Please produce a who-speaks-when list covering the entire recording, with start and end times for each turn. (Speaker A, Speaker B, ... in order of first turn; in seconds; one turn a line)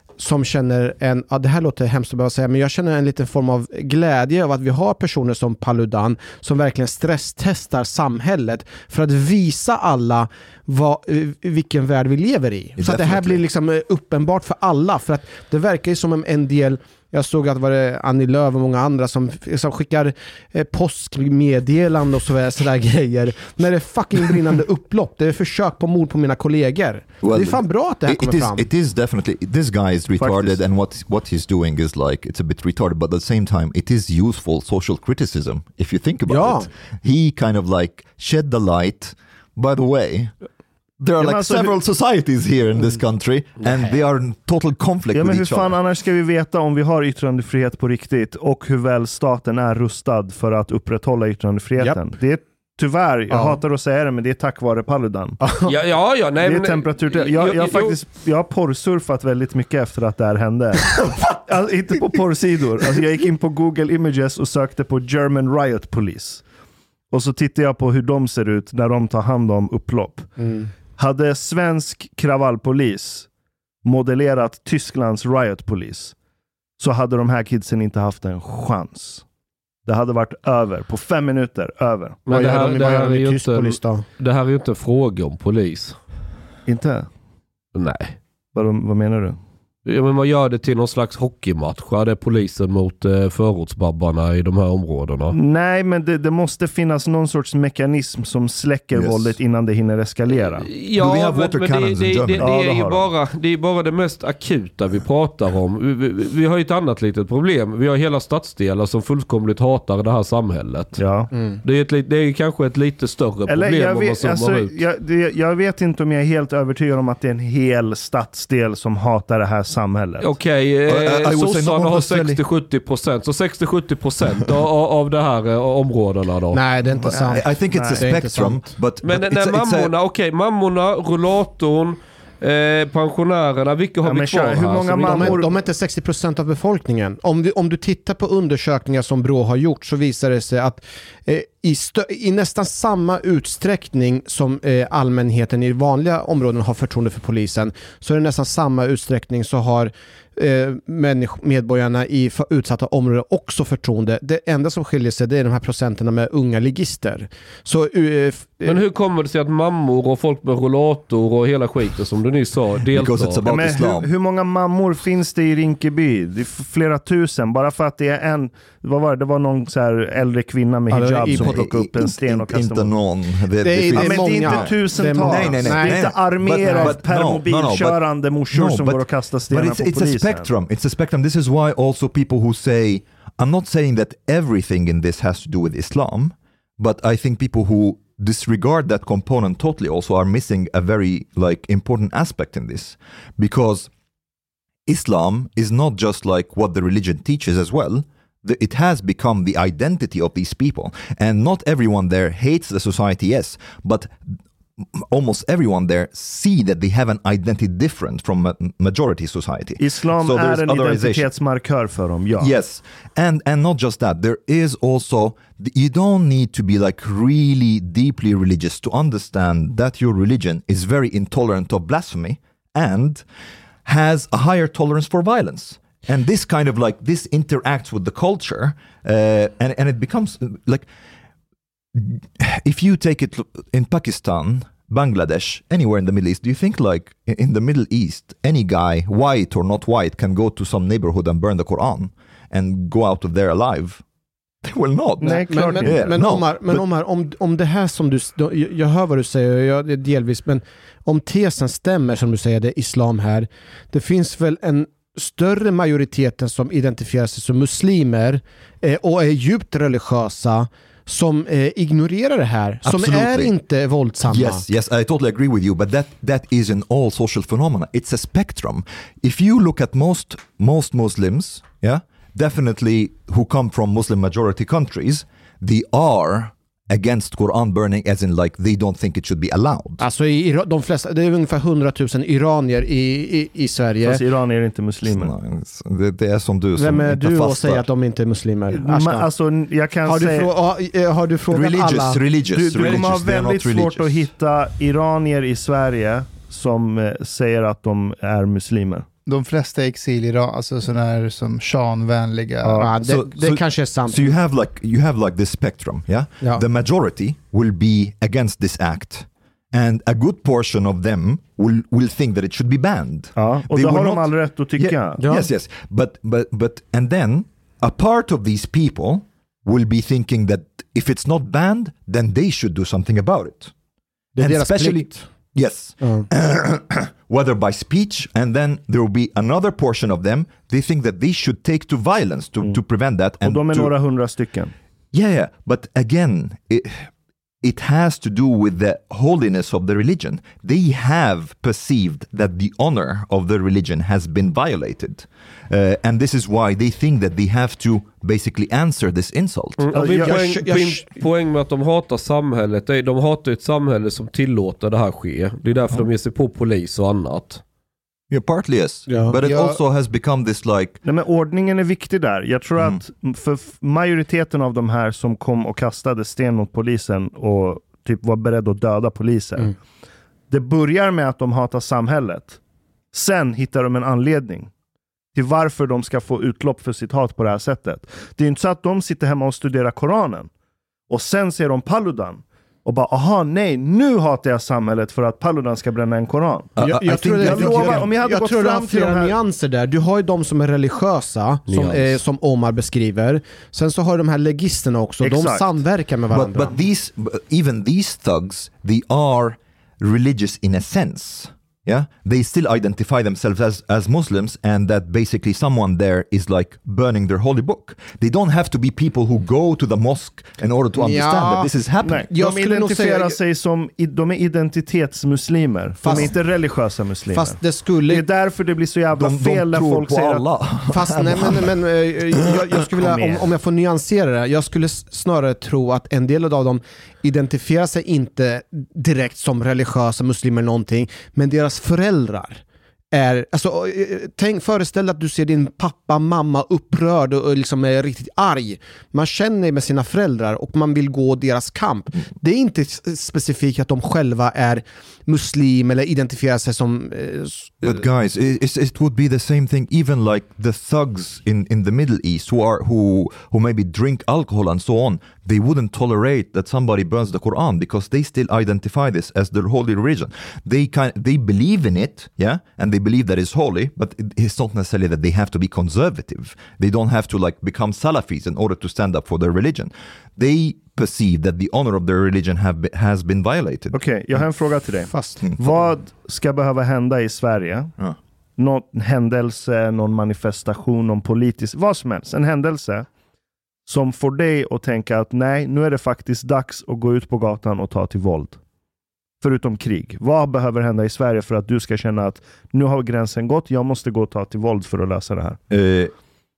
Speaker A: 0.2-28.7
Speaker B: 12.8-13.4
Speaker B: 27.2-40.3
Speaker C: 30.2-30.6
Speaker A: 36.3-36.7
Speaker B: 41.0-45.8
Speaker C: 41.2-41.8
Speaker C: 45.1-55.4
Speaker A: 53.3-53.6
Speaker A: 55.4-55.7
Speaker D: 55.6-58.0
Speaker C: 56.4-66.4
Speaker C: 67.1-70.3
Speaker A: 70.4-70.7
Speaker C: 71.0-73.3
Speaker C: 73.8-76.1
Speaker C: 76.8-79.2
Speaker C: 79.8-82.2
Speaker D: 82.3-85.9
Speaker A: 82.3-84.0
Speaker C: 86.7-87.1
Speaker D: 87.7-88.2
Speaker C: 88.5-89.4
Speaker D: 89.8-95.3
Speaker C: 95.3-100.7
Speaker B: 98.9-99.4
Speaker D: 100.7-111.0
Speaker B: 101.0-102.5
Speaker C: 102.4-103.1
Speaker C: 111.0-111.3
Speaker A: 111.3-111.6
Speaker D: 111.6-114.7
Speaker C: 113.5-120.3
Speaker D: 120.2-126.6
Speaker B: 120.9-122.4
Speaker A: 126.5-128.6
Speaker B: 127.0-129.9
Speaker C: 127.1-128.0
Speaker D: 129.0-135.4
Speaker C: 134.0-135.5
Speaker A: 135.0-158.8
Speaker D: 158.7-163.4
Speaker B: 162.9-164.1
Speaker C: 163.4-172.9
Speaker A: 170.9-171.6
Speaker B: 171.3-193.9
Speaker A: 173.6-177.0
Speaker C: 173.9-180.5
Speaker B: 194.8-211.3
Speaker C: 209.8-212.5
Speaker B: 212.4-223.2
Speaker B: 223.8-230.9
Speaker B: 231.9-244.0
Speaker B: 244.6-246.8
Speaker C: 245.2-246.1
Speaker A: 245.2-264.6
Speaker B: 262.8-263.5
Speaker B: 264.2-280.0
Speaker A: 280.0-284.2
Speaker C: 284.0-285.3
Speaker B: 285.1-287.9
Speaker A: 286.8-289.3
Speaker C: 288.7-290.5
Speaker A: 290.0-292.2
Speaker B: 291.5-294.3
Speaker C: 292.5-299.1
Speaker E: 299.2-302.8
Speaker C: 302.6-302.9
Speaker A: 302.8-304.4
Speaker B: 303.0-323.7
Speaker C: 313.4-315.2
Speaker A: 315.2-315.5
Speaker A: 324.4-325.2
Speaker B: 324.4-333.9
Speaker A: 326.0-326.3
Speaker C: 333.4-334.7
Speaker B: 335.1-337.1
Speaker B: 337.6-349.8
Speaker D: 349.8-357.6
Speaker C: 349.9-350.3
Speaker A: 349.9-351.1
Speaker B: 358.3-361.0
Speaker A: 359.1-359.4
Speaker E: 359.4-359.8
Speaker C: 361.0-369.8
Speaker C: 370.5-372.6
Speaker C: 373.1-374.7
Speaker C: 375.3-380.5
Speaker C: 381.1-386.7
Speaker B: 386.8-388.1
Speaker A: 386.8-396.8
Speaker C: 387.3-389.4
Speaker D: 391.7-392.1
Speaker C: 395.2-395.8
Speaker B: 396.3-412.3
Speaker A: 410.9-411.7
Speaker C: 412.0-420.4
Speaker A: 412.3-413.4
Speaker A: 416.0-416.3
Speaker A: 417.3-418.2
Speaker B: 419.1-421.7
Speaker A: 420.9-432.6
Speaker C: 423.0-423.5
Speaker A: 433.1-448.0
Speaker B: 447.8-474.4
Speaker C: 473.9-477.9
Speaker A: 475.1-475.4
Speaker B: 475.4-475.9
Speaker C: 478.6-483.1
Speaker C: 483.9-488.6
Speaker C: 489.4-495.6
Speaker B: 495.7-496.1